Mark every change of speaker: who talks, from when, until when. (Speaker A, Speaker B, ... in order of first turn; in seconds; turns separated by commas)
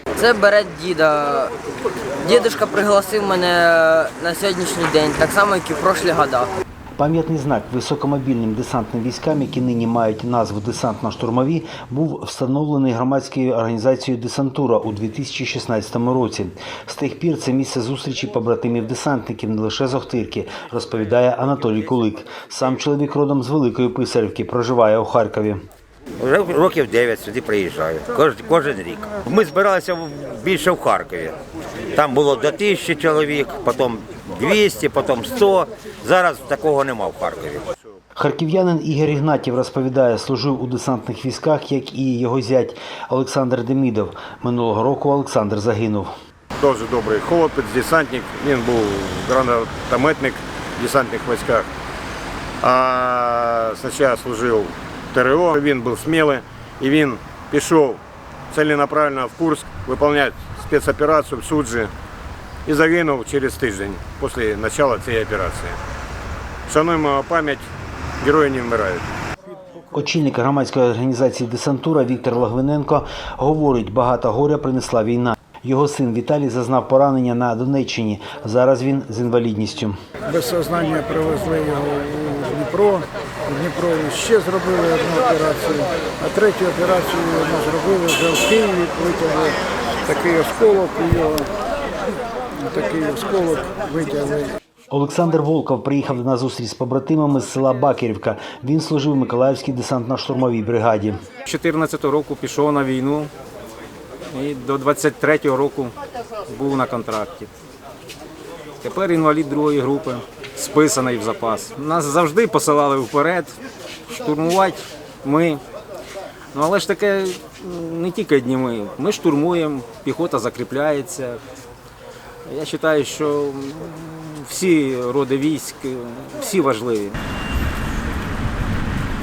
Speaker A: 0.1-1.5, Speaker A: 2.2-6.5, Speaker B: 7.0-25.6, Speaker C: 26.2-31.4, Speaker C: 31.9-37.6, Speaker B: 38.1-46.1, Speaker D: 46.6-51.7, Speaker D: 52.6-58.0, Speaker D: 58.5-61.9, Speaker D: 62.6-65.8, Speaker D: 66.7-67.6, Speaker D: 68.2-69.0, Speaker B: 69.8-80.0, Speaker E: 80.3-91.5, Speaker E: 92.6-94.5, Speaker B: 94.9-101.2, Speaker F: 101.5-103.3, Speaker F: 104.3-105.9, Speaker F: 106.5-107.5, Speaker F: 108.8-113.5, Speaker F: 114.1-115.6, Speaker F: 116.5-121.4, Speaker F: 122.5-127.2